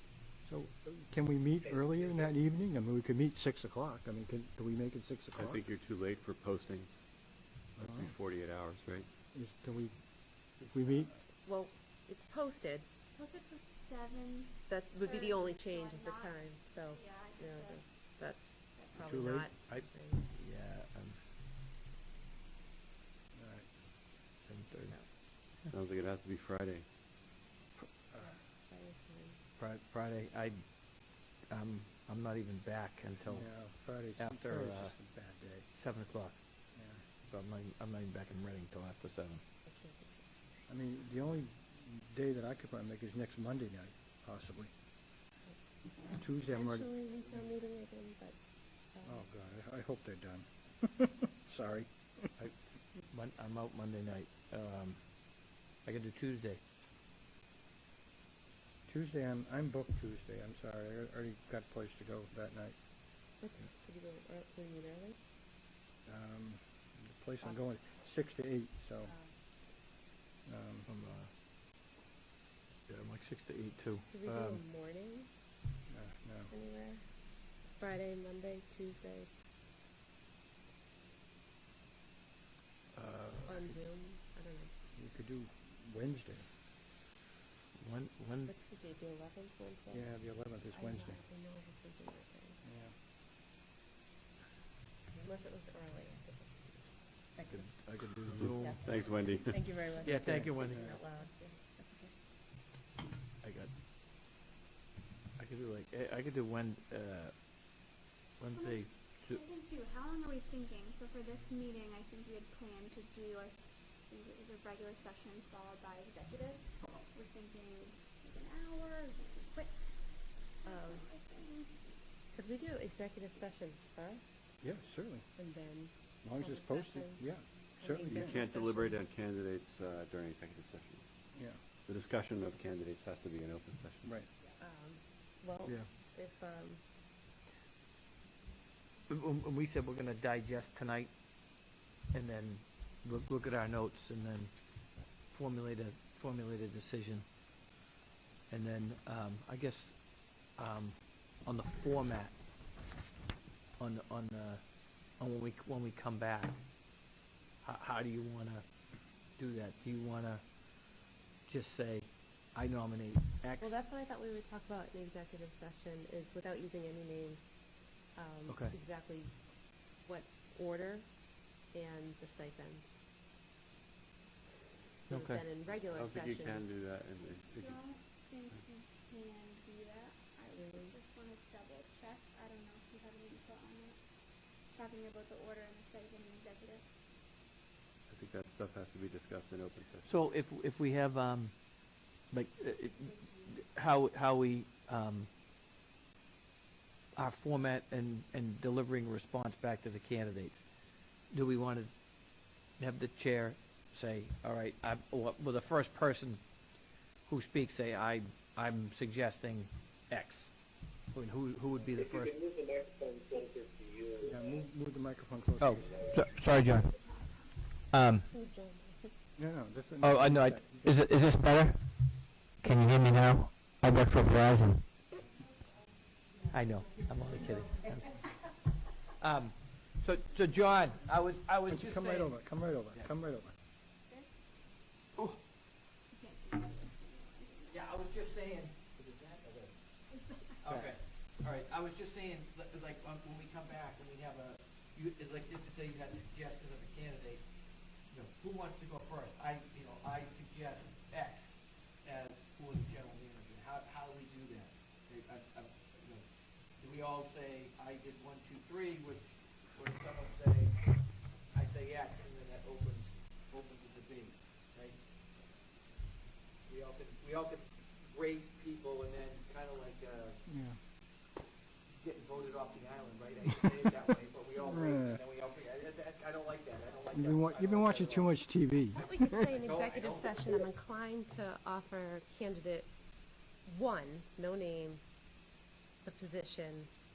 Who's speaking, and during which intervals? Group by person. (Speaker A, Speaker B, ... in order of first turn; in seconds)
Speaker A: 0.4-5.6, 7.8-8.1, 9.3-11.1, 19.0-19.5, 23.3-23.8, 28.1-28.4, 33.3-35.7, 36.7-37.0, 40.7-44.7, 46.1-46.9, 49.0-52.3, 58.9-62.8, 66.0-69.2, 70.4-70.9, 75.9-76.5, 84.9-86.5, 89.9-91.2, 92.6-92.9, 100.1-100.9, 124.6-128.4, 131.3-131.6, 134.0-134.3, 214.2-216.0, 219.4-221.0, 231.7-233.5, 270.5-270.8, 274.6-275.2, 277.1-279.5
Speaker B: 5.3-6.9, 7.8-9.1, 25.7-26.9, 98.3-99.8, 128.0-134.2, 175.8-178.0, 188.1-190.1
Speaker C: 11.4-12.9, 14.7-20.2, 28.2-29.4, 39.7-40.3, 46.5-49.3, 63.4-65.2, 69.0-69.3, 74.1-75.3, 76.5-79.3, 83.4-84.7, 88.5-90.1, 90.7-92.6, 95.2-96.7, 97.3-97.7, 98.4-102.1, 120.6-121.0, 122.3-124.2, 125.3-129.0, 134.6-136.8, 163.6-167.5, 168.0-172.9, 175.1-176.7, 180.5-180.9, 218.3-219.1, 278.9-282.9, 283.6-285.0, 286.0-286.9
Speaker D: 13.2-18.0, 108.5-121.9, 177.2-186.8, 236.1-237.9, 240.1-240.6
Speaker E: 19.7-21.2, 24.4-25.7, 29.6-35.0, 35.7-39.4, 52.4-56.6, 70.8-71.3, 72.9-74.6, 82.9-83.8, 87.8-88.5, 97.4-99.0, 100.0-100.9, 103.4-103.7, 105.4-107.3, 108.4-109.4, 139.1-141.1, 142.1-144.5, 145.1-147.2, 148.5-152.4, 153.8-154.6, 155.2-156.6, 157.6-158.7, 159.2-160.4, 161.4-163.8, 168.5-168.7, 175.1-175.4, 190.0-195.3, 197.1-200.6, 201.3-202.0, 202.7-206.5, 207.2-210.5, 211.1-212.5, 215.6-217.3, 217.9-218.3, 220.0-224.8, 226.5-228.2, 229.2-233.1, 237.7-239.7, 240.6-265.0, 266.6-270.5, 271.9-278.4, 279.4-280.6
Speaker F: 212.0-214.3